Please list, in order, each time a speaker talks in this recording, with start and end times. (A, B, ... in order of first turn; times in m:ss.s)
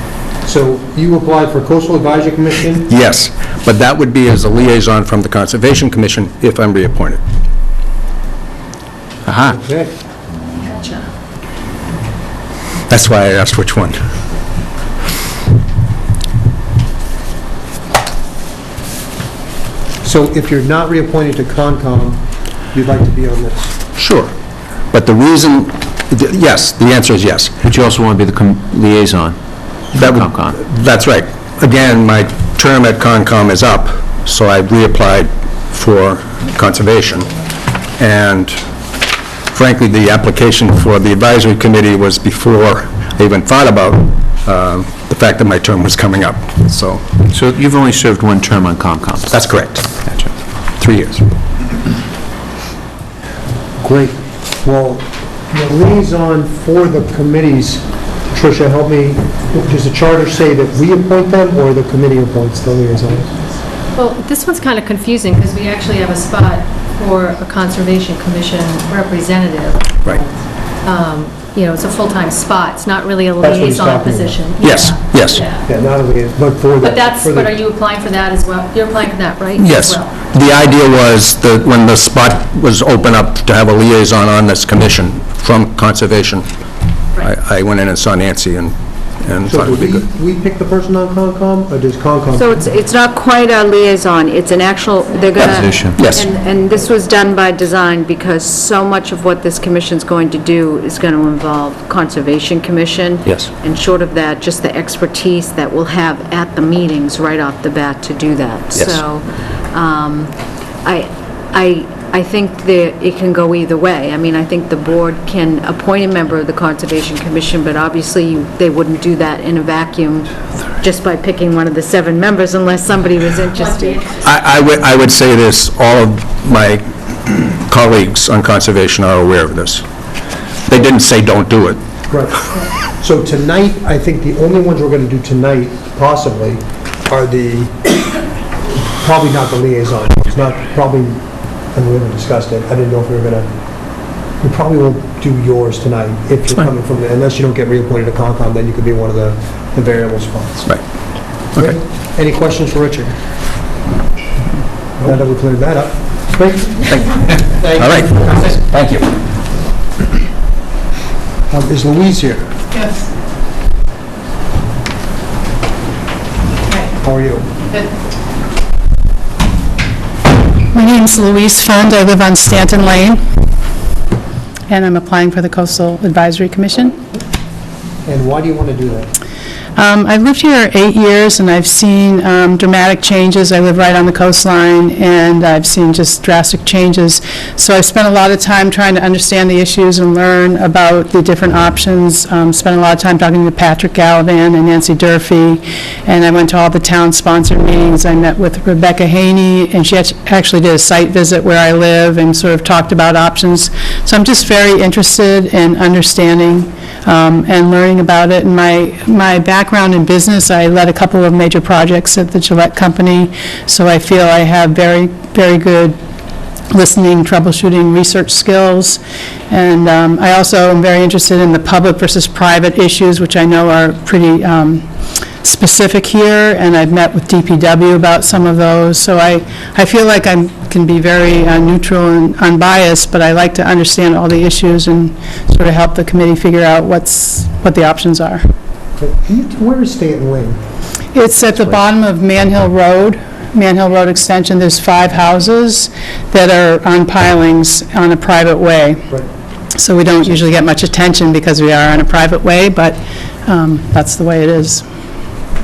0:00.4-0:02.9 A
0:02.9-0:07.2 B
0:09.4-0:09.9 A
0:10.7-0:11.0 C
0:12.9-0:14.0 B
0:20.0-0:22.2 A
0:22.7-0:23.7 A
0:24.0-0:24.3 B
0:24.9-0:27.6 B
0:27.7-0:29.4 D
0:29.9-0:37.3 B
0:38.0-0:38.6 B
0:39.5-0:47.0 B
0:47.3-0:49.2 D
0:49.3-0:50.0 B
0:50.8-0:51.2 B
0:53.8-1:03.3 A
1:03.9-1:15.6 C
1:13.4-1:14.4 A
1:14.6-1:15.4 B
1:15.6-1:17.5 A
1:16.8-1:20.1 C
1:19.6-1:26.4 B
1:27.2-1:30.0 B
1:29.5-1:32.7 A
1:32.3-1:50.3 E
1:35.6-1:36.0 D
1:36.0-1:36.3 B
1:50.8-2:04.0 E
2:03.6-2:04.2 C
2:04.2-2:09.8 B
2:10.7-2:11.8 B
2:12.1-2:17.9 A
2:18.7-2:21.2 A
2:21.7-2:23.5 A
2:24.4-2:30.7 A
2:31.6-2:33.2 A
2:35.0-2:38.5 A
2:37.7-2:39.1 B
2:41.5-2:42.5 A
2:42.8-2:43.0 F
2:47.0-2:47.5 A
2:50.7-2:53.2 F
2:54.7-2:57.0 F
2:58.0-2:59.1 A
2:59.8-3:36.0 F
3:36.7-3:44.8 F
3:45.4-3:58.4 F
3:59.0-4:00.6 A
4:01.2-4:09.1 F
4:09.8-4:14.8 F